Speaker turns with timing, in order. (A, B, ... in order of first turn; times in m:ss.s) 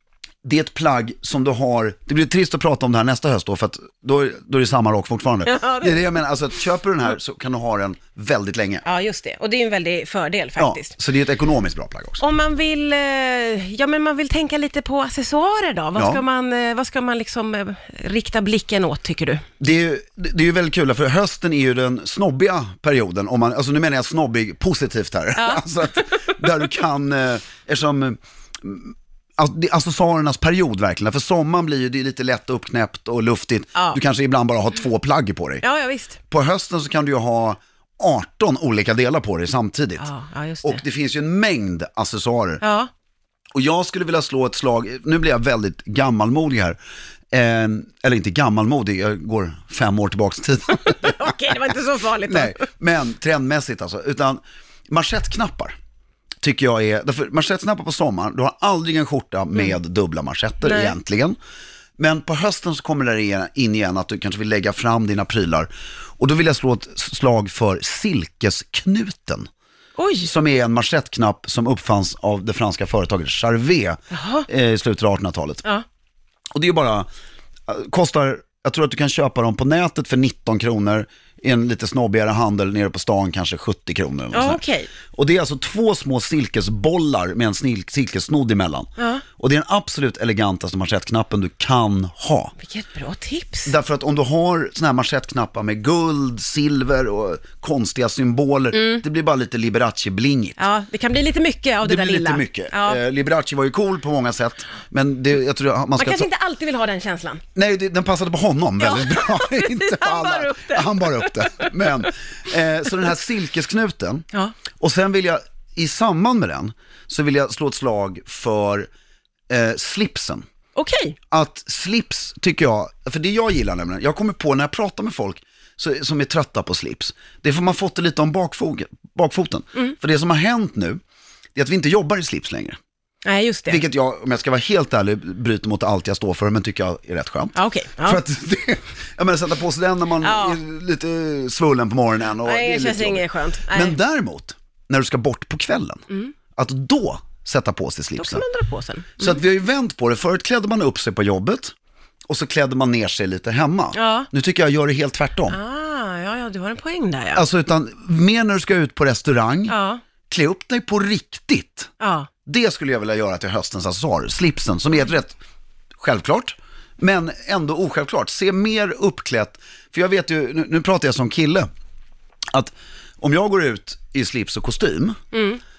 0:00.4-0:08.8 A
0:05.4-0:06.2 B
0:08.8-0:10.9 B
0:10.6-0:12.2 A
0:12.2-0:19.4 B
0:16.0-0:16.2 A
0:19.6-0:35.6 A
0:25.4-0:26.4 B
0:33.8-0:34.0 B
0:35.6-0:36.2 B
0:36.3-0:40.1 A
0:40.0-0:40.8 B
0:40.6-0:42.6 A
0:42.6-0:42.9 B
0:43.5-0:46.8 A
0:47.3-0:51.2 A
0:50.7-0:52.6 B
0:52.2-0:55.7 A
0:56.4-1:01.4 A
1:00.6-1:01.0 B
1:02.0-1:09.5 A
1:10.0-1:10.3 B
1:10.2-1:15.6 A
1:14.1-1:14.5 B
1:16.5-1:17.1 A
1:17.7-1:24.6 A
1:24.3-1:24.9 B
1:25.1-1:32.6 A
1:29.0-1:29.2 B
1:32.6-1:33.7 B
1:33.7-1:40.6 A
1:38.7-1:39.0 B
1:40.6-1:43.0 B
1:41.8-1:46.3 A
1:46.0-1:47.4 B
1:47.6-1:54.3 A
1:48.8-1:51.8 B
1:54.8-1:58.9 A
1:59.5-2:00.4 A
2:00.8-2:01.2 B
2:01.3-2:11.0 A
2:11.6-2:12.8 A
2:13.2-2:13.8 B
2:13.7-2:26.0 A
2:17.6-2:18.2 B
2:20.2-2:20.6 B
2:22.4-2:24.0 B
2:26.6-2:28.4 A
2:28.2-2:29.4 B
2:29.2-2:31.7 A
2:32.3-2:35.6 A
2:34.0-2:34.3 B
2:35.5-2:37.4 B
2:37.3-2:39.8 A
2:39.7-2:40.0 B
2:40.3-2:41.9 A
2:42.0-2:42.3 B
2:42.5-2:45.4 A
2:46.0-2:51.7 A
2:52.5-2:55.2 A
2:55.3-2:55.6 B